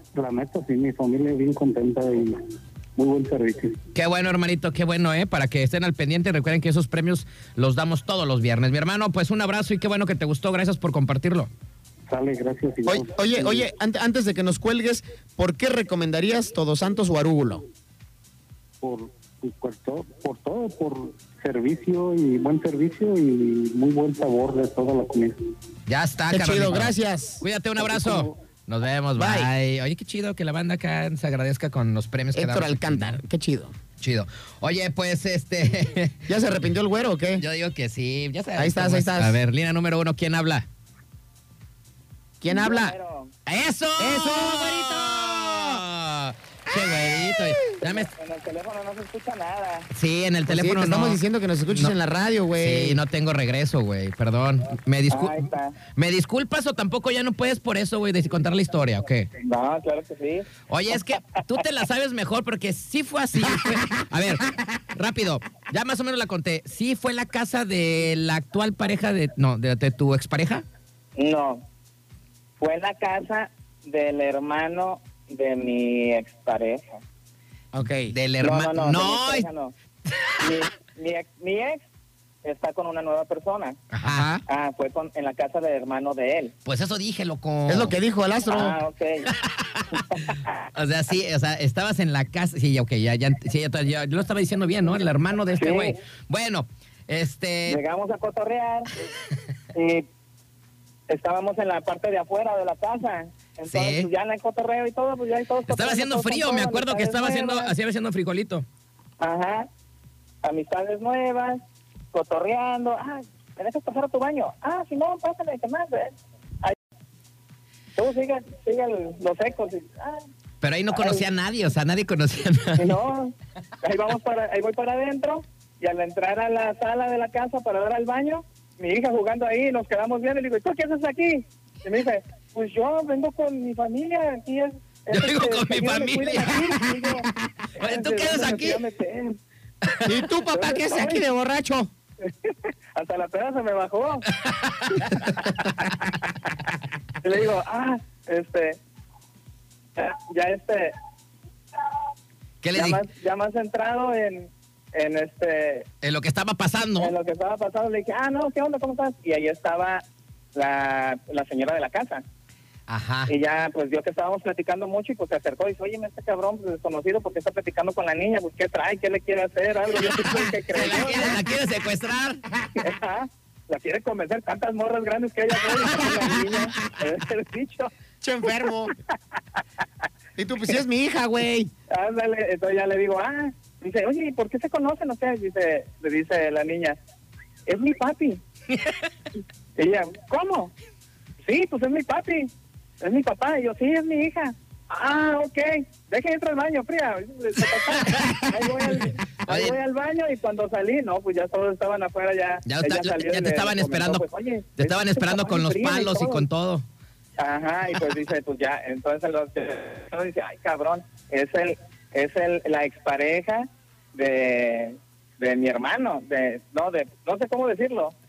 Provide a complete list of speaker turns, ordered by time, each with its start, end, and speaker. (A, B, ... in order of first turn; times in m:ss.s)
0:00.1-0:02.4 A
0:03.0-0:03.8 A
0:04.0-0:11.5 B
0:12.1-0:13.7 A
0:12.9-0:17.6 C
0:18.8-0:25.4 A
0:25.9-0:33.2 B
0:26.3-0:27.4 C
0:27.8-0:28.3 A
0:29.2-0:29.5 C
0:32.3-0:33.7 C
0:34.0-0:36.3 B
0:36.3-0:37.4 C
0:37.4-0:40.7 B
0:38.6-0:39.4 C
0:42.4-0:43.0 C
0:42.5-0:43.3 D
0:43.5-0:48.1 B
0:44.0-0:45.8 C
0:46.7-0:47.3 C
0:47.8-0:49.9 D
0:49.9-0:51.9 B
0:50.5-0:53.0 C
0:52.6-0:59.3 B
0:55.1-0:55.8 D
0:59.4-1:00.5 D
1:00.7-1:10.6 B
1:11.2-1:11.6 D
1:12.6-1:17.0 D
1:17.7-1:18.2 C
1:18.1-1:19.5 B
1:18.4-1:19.7 D
1:20.4-1:21.8 D
1:22.4-1:23.8 D
1:23.9-1:24.3 B
1:24.0-1:24.4 C
1:24.5-1:26.5 D
1:26.7-1:28.0 B
1:27.7-1:28.8 C
1:28.5-1:29.3 D
1:29.4-1:37.8 B
1:29.9-1:30.5 D
1:35.6-1:36.0 D
1:37.7-1:38.9 D
1:39.7-1:40.1 D
1:41.1-1:47.7 D
1:43.7-1:44.1 B
1:45.7-1:48.7 B
1:49.2-1:49.7 D
1:50.4-1:51.6 D
1:52.1-1:56.8 D
1:58.0-2:00.2 D
2:00.6-2:03.0 B
2:00.9-2:01.2 D
2:02.8-2:19.4 D
2:15.1-2:17.1 B
2:17.8-2:18.8 B
2:20.0-2:21.9 C
2:20.5-2:21.2 D
2:22.2-2:24.3 D
2:24.3-2:25.4 B
2:24.9-2:26.7 D
2:27.2-2:28.8 D
2:30.0-2:31.0 D
2:32.6-2:33.0 B
2:32.7-2:35.9 D
2:36.0-2:37.1 B
2:37.0-2:40.0 D
2:40.5-2:42.2 D
2:42.9-2:43.3 B
2:43.3-2:51.4 D
2:50.7-2:52.4 B
2:52.8-2:57.9 D
2:58.2-2:58.9 C
3:00.4-3:01.7 C
3:01.9-3:07.0 D
3:07.7-3:08.4 D
3:09.8-3:10.7 D
3:11.4-3:26.4 D
3:17.7-3:19.8 B
3:22.6-3:24.2 B
3:24.8-3:26.8 B
3:27.4-3:38.1 D